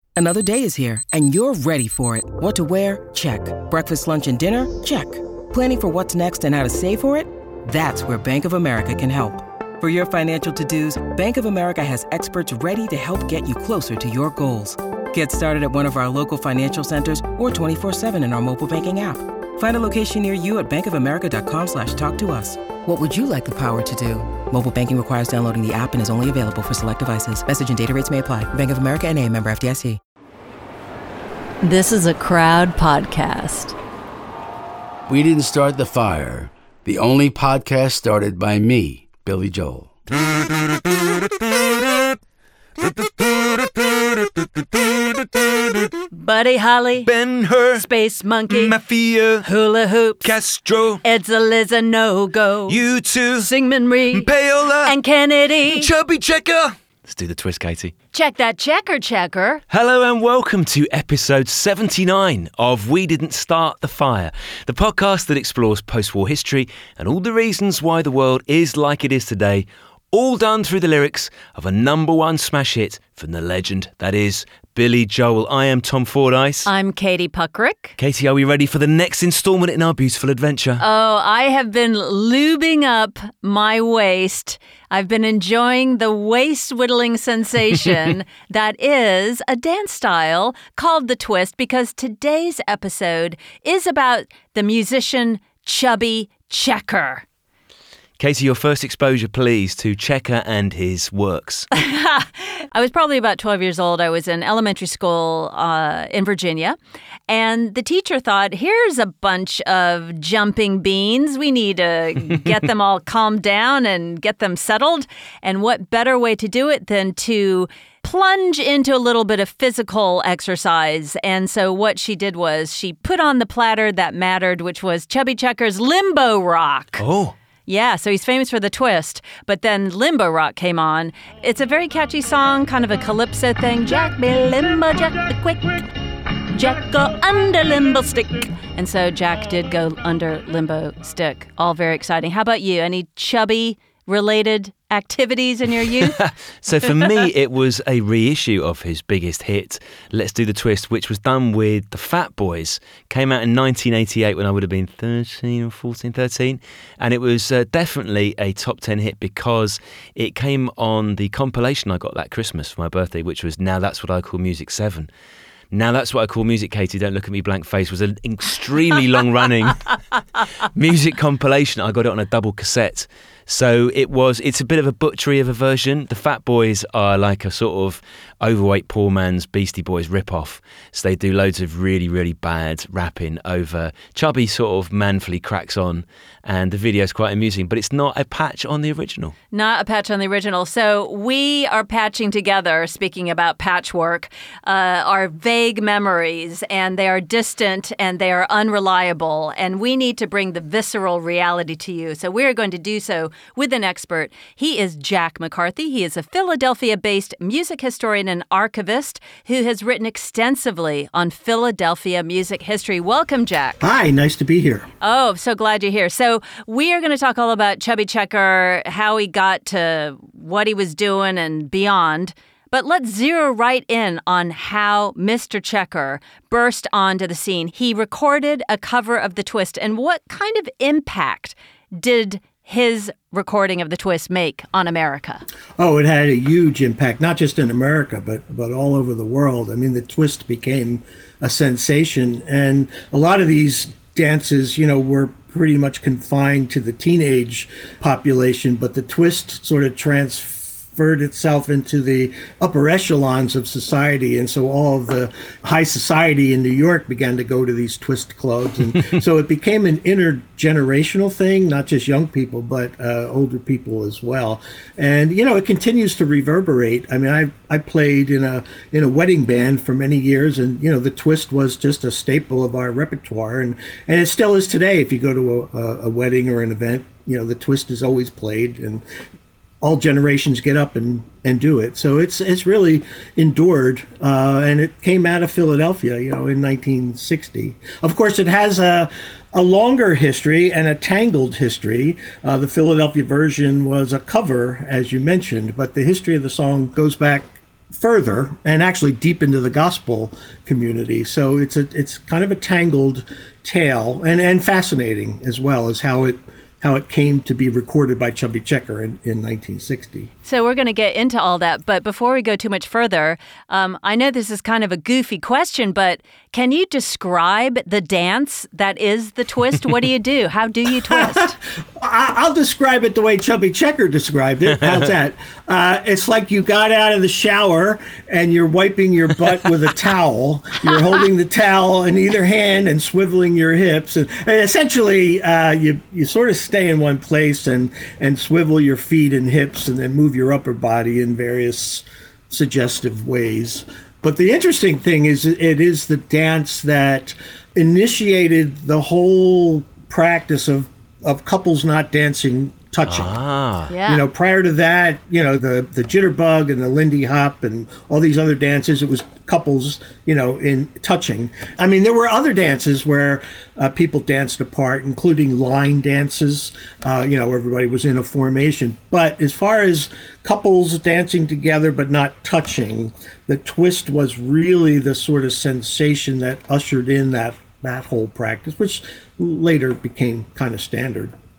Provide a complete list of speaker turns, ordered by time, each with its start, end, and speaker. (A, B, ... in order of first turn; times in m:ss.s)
0:00.2-0:30.0 A
0:31.6-0:33.8 B
0:35.1-0:39.9 C
0:42.8-0:45.9 D
0:46.1-0:47.1 B
0:47.0-0:47.8 D
0:47.7-0:48.8 B
0:48.5-0:49.5 D
0:49.4-0:50.3 B
0:50.2-0:51.0 D
0:51.0-0:52.8 B
0:52.7-0:53.5 D
0:53.4-0:54.3 B
0:54.1-0:55.0 D
0:54.8-0:55.9 B
0:55.6-0:57.9 D
0:58.1-0:59.6 B
0:59.7-1:16.7 D
1:16.7-1:18.0 B
1:18.0-1:20.8 D
1:20.8-1:37.2 B
1:38.2-1:41.7 D
1:41.7-1:46.8 B
1:47.3-2:07.0 B
2:07.0-2:07.4 D
2:07.7-2:15.8 B
2:16.5-2:26.2 B
2:26.1-2:45.1 D
2:45.7-2:49.9 D
2:50.7-3:09.4 D
3:09.5-3:33.8 B
3:33.8-3:34.9 E
3:35.0-3:55.4 B
3:55.8-4:39.0 E
4:39.8-5:10.3 E
5:10.4-5:21.6 B
5:21.1-5:53.4 E
5:53.1-5:53.9 D
5:53.9-5:54.2 B
5:54.0-6:21.3 E